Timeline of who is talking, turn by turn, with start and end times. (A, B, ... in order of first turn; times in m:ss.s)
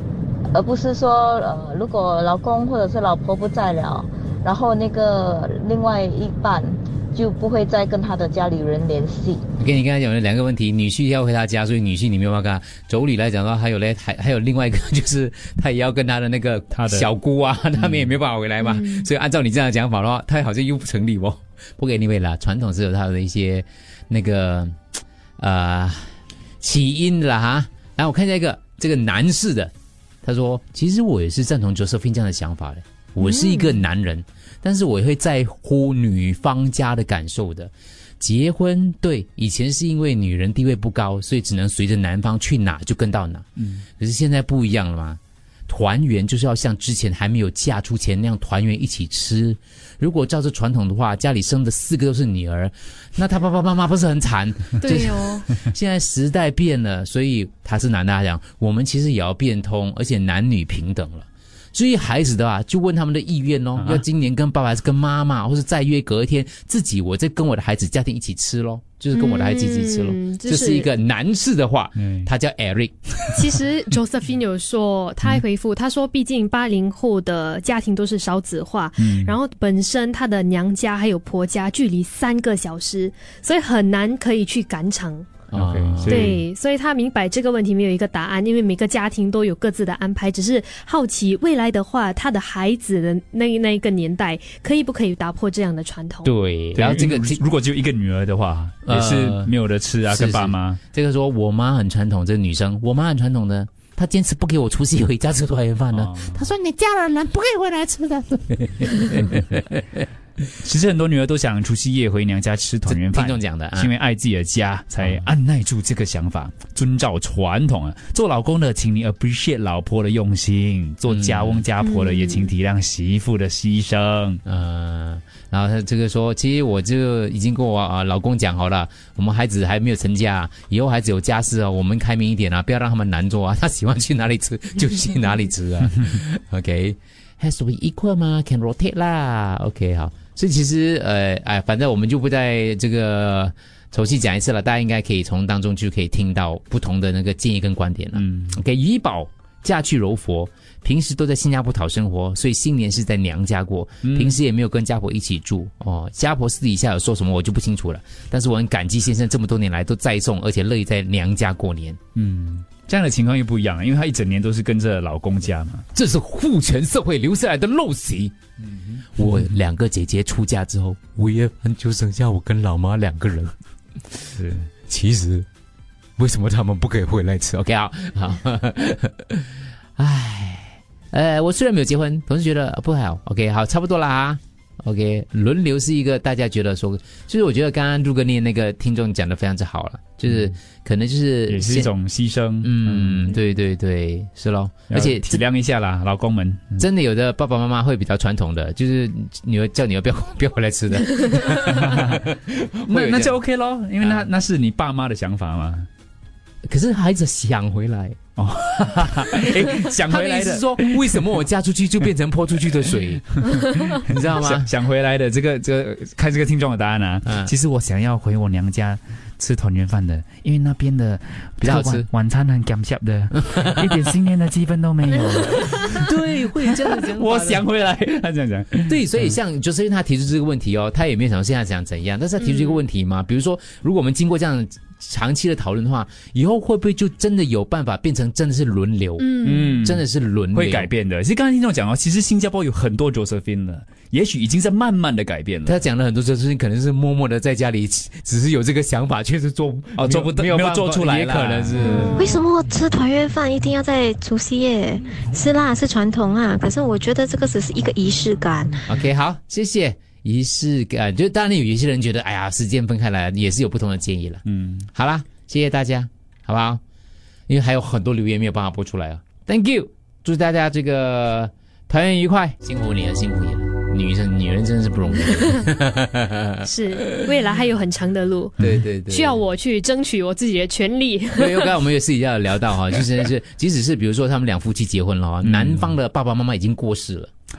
0:00.5-0:09.4 A
0:09.6-0:24.8 B
0:16.7-0:17.1 C
0:18.6-0:19.0 D
0:25.4-0:29.7 B
0:30.2-0:43.5 B
0:33.2-0:33.8 D
0:43.6-0:43.8 C
0:44.0-1:13.0 B
0:54.8-0:55.5 D
1:03.8-1:04.0 C
1:09.1-1:10.9 D
1:12.0-1:12.3 C
1:13.4-1:25.4 D
1:19.0-1:19.4 C
1:25.5-1:26.4 C
1:25.5-1:26.4 B
1:26.1-1:36.3 D
1:36.2-1:37.4 B
1:36.7-1:40.8 C
1:38.9-1:39.5 B
1:40.1-1:49.8 B
1:45.9-1:46.5 C
1:50.6-2:04.4 C
1:52.9-1:53.9 B
2:01.1-2:01.7 B
2:01.8-2:02.5 D
2:04.5-2:42.0 B
2:28.1-2:28.6 C
2:34.0-2:34.4 C
2:42.2-2:45.8 C
2:46.0-2:48.4 B
2:48.6-2:49.4 C
2:49.1-2:53.5 B
2:54.4-2:54.7 C
2:54.9-2:55.5 B
2:56.2-3:11.9 B
3:11.5-3:13.3 C
3:12.6-3:15.4 B
3:14.9-3:16.8 C
3:16.8-3:23.4 B
3:21.6-3:22.2 C
3:22.9-3:25.9 C
3:24.0-3:24.3 B
3:26.7-3:28.2 B
3:28.4-3:31.3 C
3:29.6-3:33.2 B
3:33.3-3:49.4 C
3:34.1-3:34.7 B
3:41.6-3:42.1 B
3:45.6-3:47.6 B
3:48.9-4:00.9 B
3:52.4-3:52.8 D
3:59.2-3:59.8 D
3:59.4-4:05.8 C
4:05.7-4:12.4 B
4:10.0-4:12.4 C
4:11.8-4:18.8 E
4:18.9-4:24.4 B
4:24.5-4:24.9 C
4:24.9-4:26.8 B
4:27.5-4:37.2 B
4:36.6-4:41.8 D
4:38.6-4:39.4 B
4:38.6-4:38.9 C
4:41.4-4:47.3 B
4:45.4-4:46.0 C